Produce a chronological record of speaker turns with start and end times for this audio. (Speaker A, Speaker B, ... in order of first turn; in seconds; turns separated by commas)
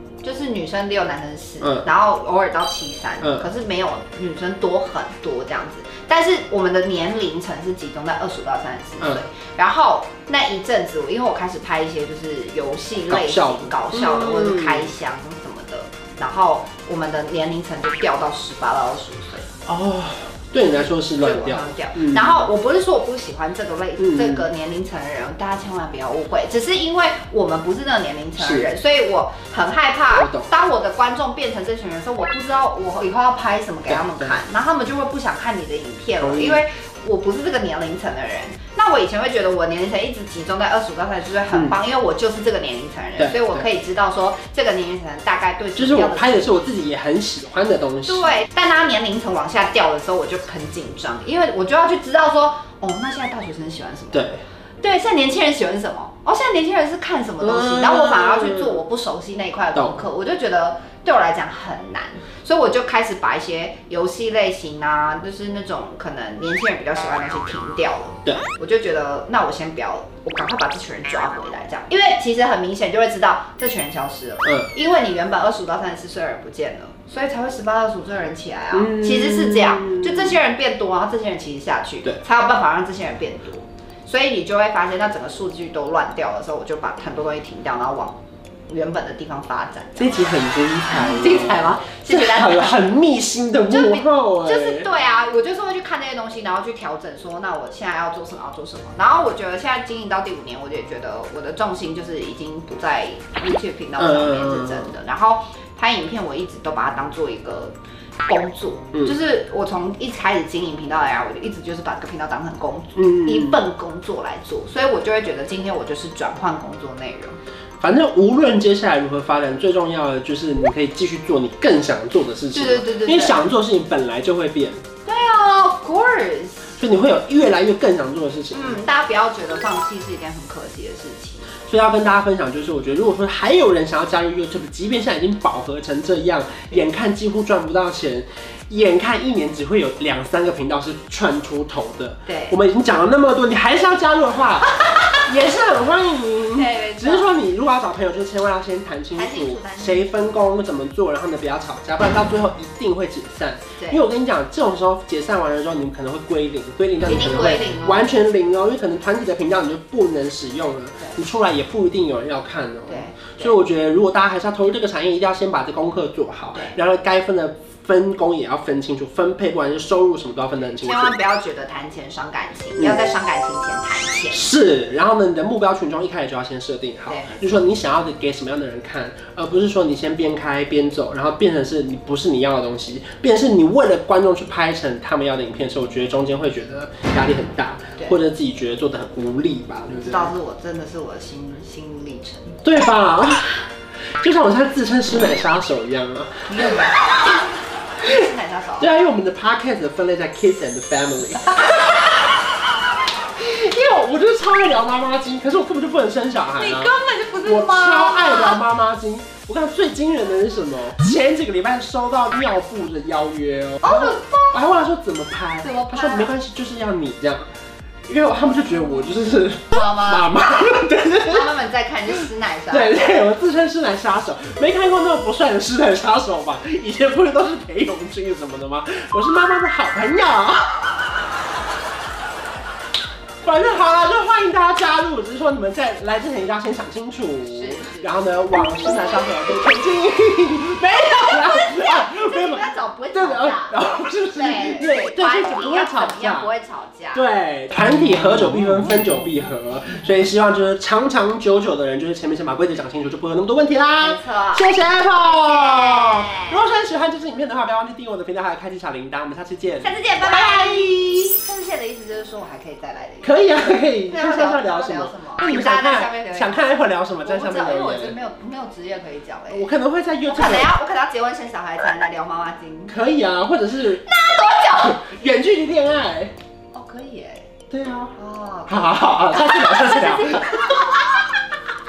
Speaker A: 0.2-19.5, Speaker B: 3.2-3.5, Speaker B: 13.1-14.9, Speaker B: 19.7-22.5, Speaker A: 20.7-46.5, Speaker B: 24.0-24.5, Speaker B: 28.4-28.7, Speaker B: 30.2-30.5, Speaker B: 33.9-34.3, Speaker B: 36.2-36.6, Speaker B: 41.5-41.8, Speaker B: 43.2-43.7, Speaker B: 45.8-48.4, Speaker A: 48.1-54.3, Speaker B: 54.1-54.4, Speaker A: 54.8-90.2, Speaker B: 57.4-58.8, Speaker B: 59.8-60.0, Speaker B: 74.5-74.7, Speaker B: 78.7-80.3, Speaker B: 90.0-94.9, Speaker A: 90.9-92.8, Speaker A: 93.7-107.8, Speaker B: 104.0-104.9, Speaker A: 108.3-117.4, Speaker B: 113.0-113.6, Speaker B: 117.8-124.8, Speaker A: 122.5-123.4, Speaker A: 125.1-126.8, Speaker B: 126.8-128.8, Speaker A: 128.5-131.5, Speaker B: 131.7-171.2, Speaker A: 142.3-142.6, Speaker A: 146.6-147.3, Speaker A: 149.2-150.1, Speaker A: 153.8-154.0, Speaker A: 157.1-158.1, Speaker A: 162.9-163.6, Speaker A: 170.8-174.5, Speaker B: 174.3-190.3, Speaker A: 177.1-177.6, Speaker A: 190.0-192.6, Speaker B: 192.6-193.6, Speaker B: 194.2-196.7, Speaker A: 196.5-197.3, Speaker A: 198.0-198.9, Speaker B: 198.8-201.8, Speaker B: 203.4-217.5, Speaker A: 206.6-208.6, Speaker A: 213.8-214.8, Speaker A: 215.6-216.3, Speaker B: 218.1-221.5, Speaker A: 219.7-220.3, Speaker A: 221.3-223.1, Speaker B: 222.7-230.9, Speaker B: 233.4-246.5, Speaker A: 237.5-238.1, Speaker A: 241.2-243.8, Speaker A: 244.3-247.2, Speaker B: 247.1-261.3, Speaker A: 254.0-256.6, Speaker A: 259.8-269.7, Speaker B: 263.2-268.2, Speaker B: 269.5-270.7, Speaker A: 270.3-273.0, Speaker B: 272.9-274.1, Speaker A: 274.0-275.3, Speaker B: 274.8-276.3, Speaker A: 276.7-277.5, Speaker B: 277.7-278.2, Speaker A: 278.2-281.4, Speaker B: 278.7-280.7